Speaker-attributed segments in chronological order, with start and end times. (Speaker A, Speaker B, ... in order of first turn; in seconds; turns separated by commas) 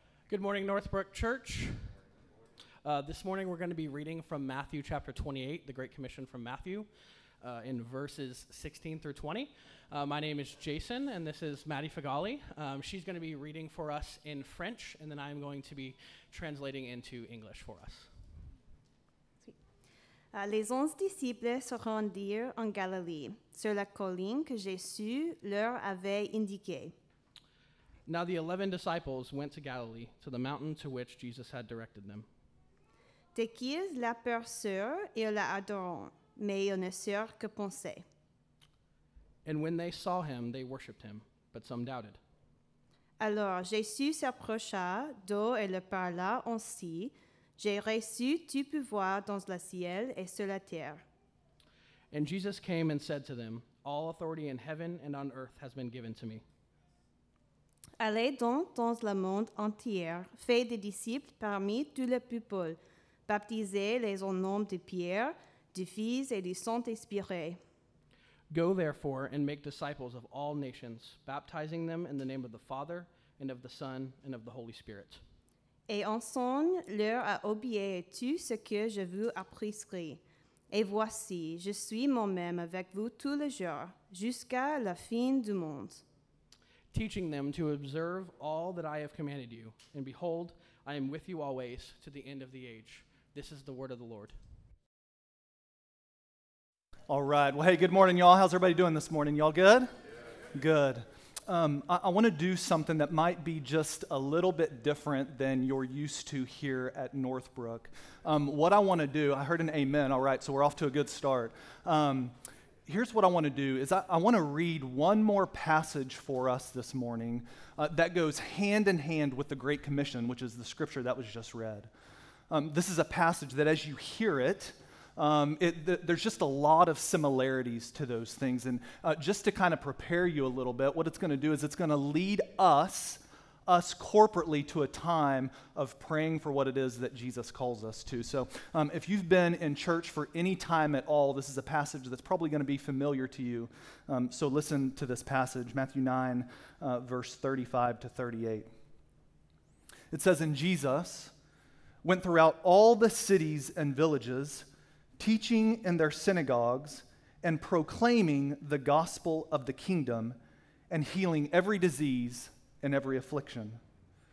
Speaker A: 0.3-1.9, Speaker A: 2.8-6.9, Speaker A: 7.4-18.1, Speaker B: 20.3-26.9, Speaker A: 28.1-32.3, Speaker B: 33.4-38.0, Speaker A: 39.5-42.2, Speaker B: 43.2-51.0, Speaker A: 52.1-56.4, Speaker B: 58.0-67.6, Speaker A: 68.5-75.2, Speaker B: 75.9-86.0, Speaker A: 86.9-94.4, Speaker C: 97.1-99.9, Speaker C: 100.5-112.3, Speaker C: 112.9-121.9, Speaker C: 122.5-148.7, Speaker C: 150.1-151.3, Speaker C: 152.0-154.7, Speaker C: 155.2-160.4, Speaker C: 160.9-163.8